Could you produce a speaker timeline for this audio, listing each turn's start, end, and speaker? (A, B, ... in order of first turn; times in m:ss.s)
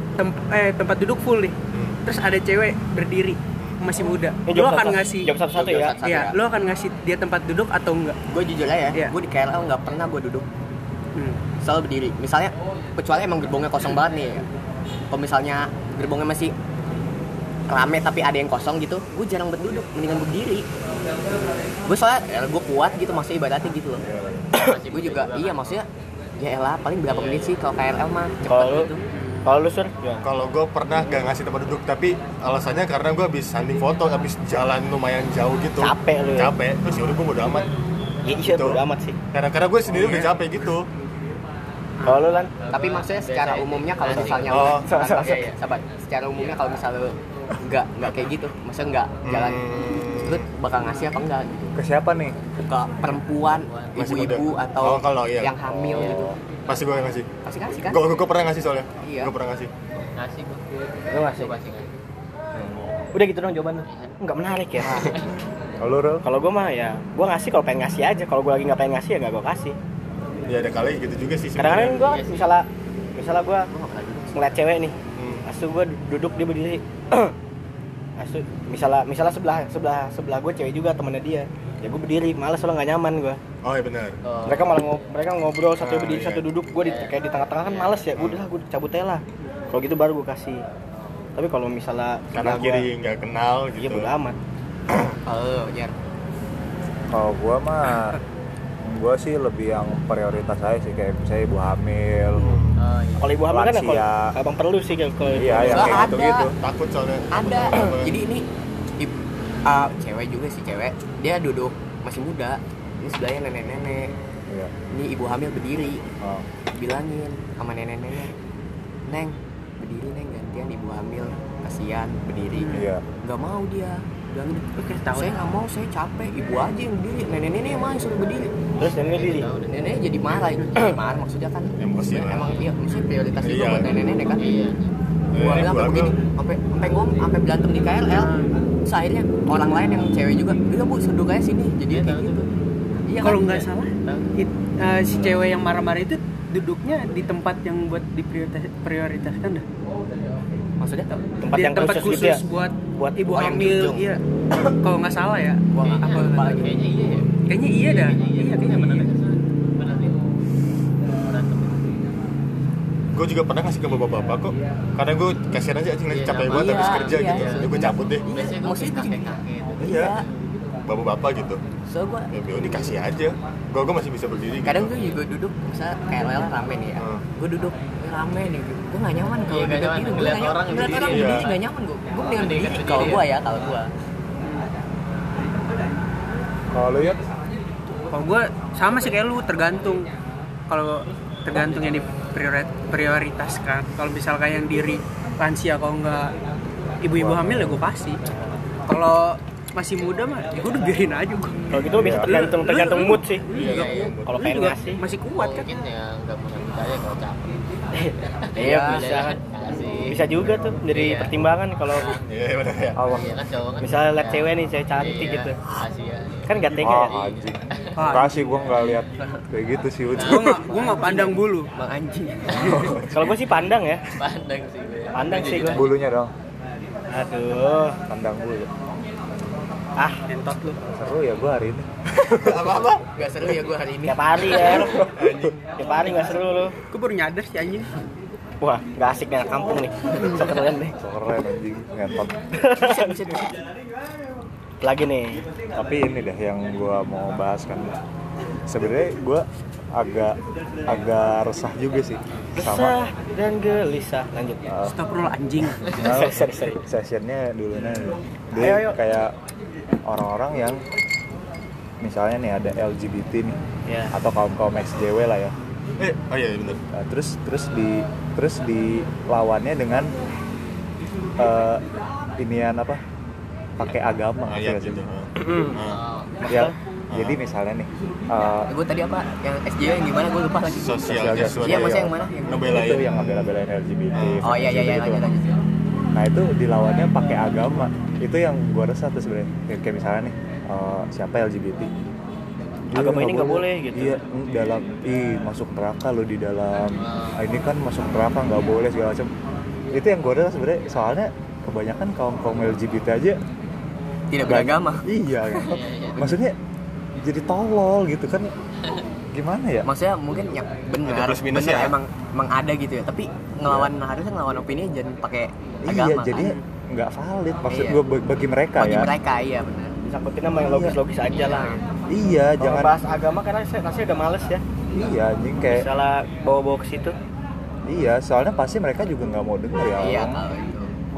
0:00.2-0:05.3 A
0:01.7-0:02.0 B
0:04.5-0:06.0 C
0:05.5-0:06.4 D
0:06.0-0:08.2 A
0:08.3-0:10.5 D
0:11.6-0:14.4 D
0:15.1-0:16.5 D
0:17.7-0:20.7 D
0:21.9-0:24.0 D
0:24.0-0:24.5 E
0:24.5-0:25.8 F
0:24.9-0:25.9 D
0:26.4-0:29.0 D
0:27.1-0:27.5 F
0:28.5-0:28.9 C
0:29.1-0:29.5 A
0:29.4-0:30.2 C
0:30.2-0:37.7 B
0:35.8-0:36.6 C
0:38.2-0:39.2 C
0:38.4-0:38.8 B
0:39.3-0:40.9 B
0:39.9-0:40.3 A
0:42.0-0:42.3 A
0:42.0-0:42.5 C
0:42.6-0:45.6 F
0:42.7-0:51.8 D
0:44.1-0:45.4 C
0:44.5-0:44.9 B
0:49.2-0:50.5 B
0:51.8-0:52.4 E
0:52.6-0:56.3 D
0:53.4-0:54.3 F
0:54.0-0:57.3 B
0:55.7-0:56.4 E
0:57.4-0:58.0 D
0:57.8-0:59.7 B
0:59.0-0:59.3 D
1:00.2-1:01.9 F
1:01.1-1:01.5 C
1:03.1-1:05.2 C
1:03.9-1:04.2 F
1:04.9-1:05.2 F
1:05.8-1:06.3 E
1:06.2-1:09.8 C
1:10.5-1:12.1 B
1:11.6-1:13.7 C
1:12.0-1:12.5 F
1:13.7-1:14.6 D
1:14.3-1:17.4 C
1:15.2-1:15.4 B
1:18.2-1:23.4 C
1:23.6-1:24.2 B
1:24.2-1:24.8 F
1:24.5-1:30.6 C
1:25.8-1:26.5 B
1:26.8-1:28.0 F
1:31.4-1:32.9 C
1:32.3-1:34.1 B
1:33.8-1:34.4 C
1:34.9-1:35.1 B
1:35.3-1:35.9 D
1:37.1-1:38.2 E
1:38.8-1:42.6 E
1:42.4-1:42.8 B
1:42.8-1:43.4 F
1:43.2-1:46.1 C
1:43.5-1:44.4 E
1:45.3-1:46.5 E
1:45.7-1:46.5 D
1:46.6-1:48.2 B
1:47.3-1:48.5 D
1:49.7-1:54.1 D
1:54.9-1:56.0 D
1:56.8-1:58.3 D
1:59.1-2:08.5 D
2:02.5-2:02.9 A
2:02.7-2:03.0 E
2:04.7-2:05.4 A
2:08.8-2:09.5 C
2:09.1-2:10.4 F
2:09.7-2:14.4 D
2:11.8-2:12.6 B
2:13.4-2:13.9 B
2:14.4-2:14.9 F
2:15.3-2:16.2 B
2:15.4-2:18.3 D
2:18.1-2:18.5 A
2:18.8-2:22.4 D
2:21.9-2:22.5 F
2:23.1-2:23.7 D
2:23.2-2:29.6 A
2:30.8-2:31.2 D
2:31.4-2:33.2 C
2:31.5-2:36.7 A
2:33.3-2:34.1 D
2:35.7-2:36.7 D
2:35.8-2:40.2 F
2:37.5-2:39.1 A
2:41.1-2:41.9 F
2:43.1-2:48.3 B
2:46.1-2:50.1 F
2:46.5-2:50.3 D
2:49.8-2:50.2 B
2:50.8-2:51.6 B
2:51.9-2:52.9 D
2:52.3-2:55.0 B
2:54.6-3:03.9 D
2:57.0-2:57.2 B
2:59.5-3:01.6 F
3:00.8-3:01.6 B
3:02.3-3:03.3 F
3:06.7-3:07.2 E
3:08.1-3:10.1 A
3:10.7-3:16.4 A
3:17.0-3:18.2 A
3:17.2-3:17.8 E
3:18.9-3:25.7 A
3:21.7-3:23.5 C
3:22.0-3:22.4 E
3:23.5-3:24.4 B
3:23.6-3:24.2 F
3:24.3-3:25.0 C
3:25.3-3:27.6 F
3:27.9-3:29.4 C
3:28.2-3:30.3 F
3:28.6-3:29.2 D
3:30.0-3:32.2 C
3:30.4-3:30.6 E
3:30.9-3:31.3 F
3:31.9-3:32.2 F
3:32.3-3:33.0 B
3:33.0-3:33.4 E
3:33.1-3:38.2 F
3:33.8-3:35.6 C
3:36.5-3:37.2 C
3:36.8-3:41.0 E
3:38.0-3:38.5 A
3:40.2-3:40.7 F
3:40.2-3:41.7 A
3:40.8-3:43.0 D
3:42.6-3:43.2 E
3:43.1-3:44.0 C
3:44.1-3:45.9 F
3:45.2-3:45.8 C
3:45.7-3:46.3 E
3:47.1-3:48.0 C
3:48.1-3:48.7 E
3:50.0-3:50.8 C
3:50.3-3:50.8 A
3:50.9-3:51.9 E
3:52.2-3:53.0 B
3:53.0-3:54.9 D
3:54.1-3:55.1 C
3:54.6-3:55.6 B
3:54.8-3:55.4 E
3:55.8-3:56.8 C
3:56.8-3:58.1 A
3:58.6-4:01.0 C
4:01.0-4:02.3 E
4:02.6-4:03.1 C
4:02.8-4:03.6 D
4:04.8-4:05.4 C
4:05.8-4:08.0 E
4:08.7-4:13.0 E
4:12.6-4:14.8 C
4:14.8-4:15.9 A
4:15.9-4:16.8 C
4:15.9-4:19.4 E
4:18.5-4:19.0 C
4:20.1-4:20.8 E
4:22.0-4:23.6 E
4:23.9-4:24.1 C
4:24.1-4:25.5 E
4:26.0-4:26.8 B
4:26.9-4:30.1 E
4:31.4-4:31.8 E
4:32.4-4:33.0 E
4:33.8-4:35.0 E
4:34.5-4:36.0 B
4:35.4-4:35.8 C
4:35.8-4:36.4 F
4:36.4-4:36.8 C
4:36.5-4:38.7 E
4:37.1-4:37.4 B
4:38.7-4:42.8 D
4:40.7-4:43.5 B
4:41.1-4:42.1 E
4:42.7-4:45.3 E
4:44.1-4:44.4 B
4:44.4-4:45.6 D
4:46.1-4:51.9 E
4:52.9-4:59.3 E
4:52.9-4:54.2 C
4:57.0-4:57.4 F
4:59.9-5:03.4 E
5:04.3-5:05.1 D
5:04.4-5:06.6 E
5:05.6-5:06.3 F
5:07.2-5:08.5 E
5:09.3-5:09.9 E
5:09.8-5:16.6 D
5:11.0-5:12.0 B
5:13.7-5:13.9 E
5:15.8-5:19.1 E
5:17.7-5:18.0 D
5:18.8-5:20.0 D
5:20.0-5:21.8 C
5:20.6-5:21.0 E
5:21.3-5:21.8 D
5:22.1-5:23.0 E
5:22.6-5:24.6 C
5:24.9-5:25.9 E
5:25.7-5:27.1 C
5:27.9-5:30.4 E
5:30.0-5:30.9 D